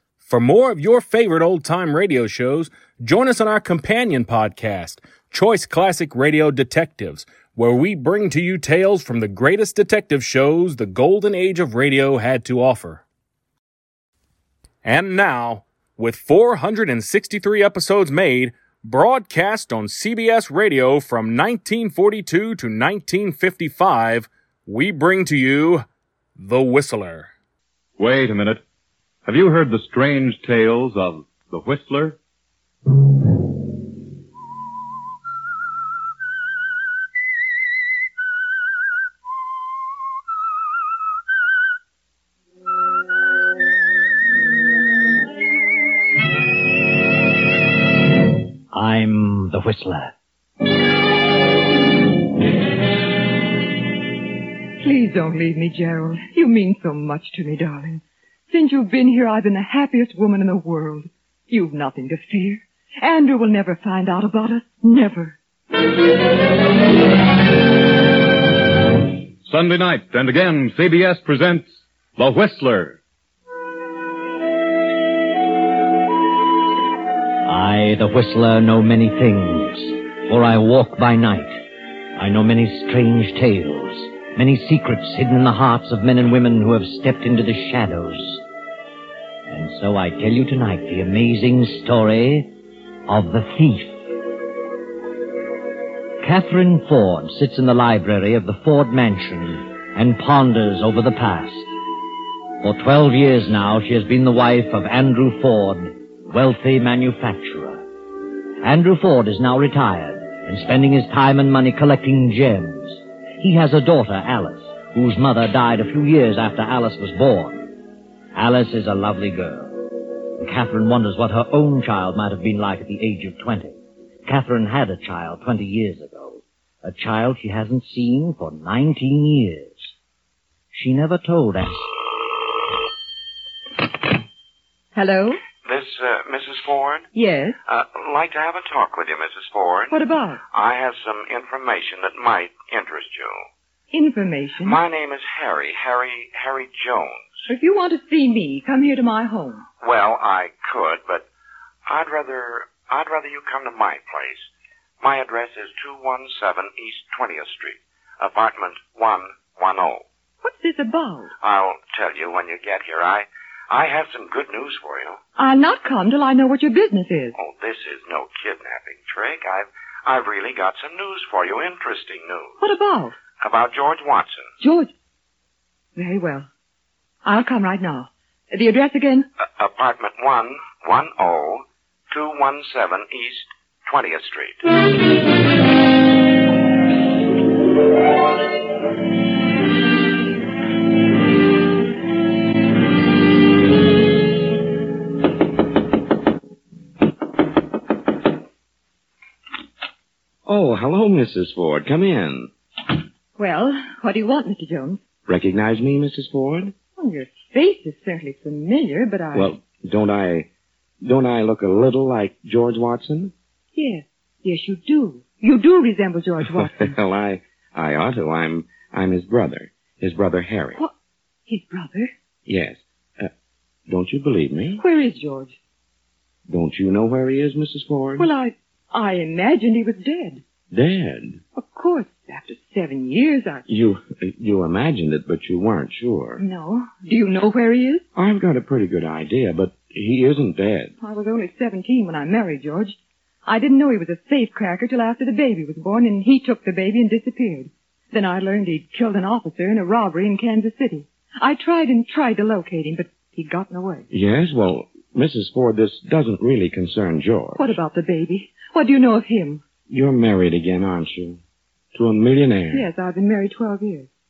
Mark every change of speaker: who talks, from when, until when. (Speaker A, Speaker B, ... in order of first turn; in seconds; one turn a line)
Speaker A: 0.2-13.0
Speaker A: 14.8-25.8
Speaker A: 26.4-27.3
Speaker B: 28.0-28.6
Speaker B: 29.2-32.2
Speaker C: 48.7-50.1
Speaker D: 54.8-65.4
Speaker B: 69.4-73.0
Speaker C: 77.5-81.6
Speaker C: 82.2-88.4
Speaker C: 89.5-92.5
Speaker C: 93.1-94.0
Speaker C: 96.2-101.7
Speaker C: 102.6-107.8
Speaker C: 108.6-117.7
Speaker C: 118.3-129.9
Speaker C: 130.7-131.8
Speaker D: 134.9-135.4
Speaker E: 135.7-137.0
Speaker D: 137.1-137.6
Speaker E: 137.7-139.9
Speaker D: 139.9-140.4
Speaker E: 140.5-143.4
Speaker D: 143.9-144.8
Speaker E: 144.8-147.2
Speaker D: 147.5-149.7
Speaker E: 149.8-151.2
Speaker E: 151.9-154.4
Speaker E: 155.0-160.0
Speaker D: 160.4-161.3
Speaker E: 161.4-165.2
Speaker D: 165.4-167.4
Speaker E: 167.3-172.5
Speaker D: 172.6-173.1
Speaker E: 173.4-174.5
Speaker D: 174.6-174.9
Speaker D: 175.9-176.5
Speaker D: 177.2-179.3
Speaker E: 179.6-184.6
Speaker F: 200.4-202.5
Speaker D: 203.4-205.0
Speaker F: 205.3-206.7
Speaker D: 207.0-209.5
Speaker F: 209.3-210.5
Speaker F: 211.0-213.3
Speaker D: 213.7-217.0
Speaker F: 216.6-220.8
Speaker D: 221.5-222.1
Speaker F: 222.4-223.3
Speaker F: 223.9-224.8
Speaker D: 224.8-225.6
Speaker F: 226.5-228.3
Speaker D: 228.2-230.4
Speaker F: 230.7-231.4
Speaker D: 231.5-233.6
Speaker F: 233.7-236.4
Speaker D: 236.4-238.0
Speaker F: 238.1-240.9
Speaker D: 241.0-254.1
Speaker F: 254.1-257.8
Speaker D: 257.6-259.6
Speaker F: 259.9-261.4
Speaker F: 261.9-262.9
Speaker D: 262.7-264.1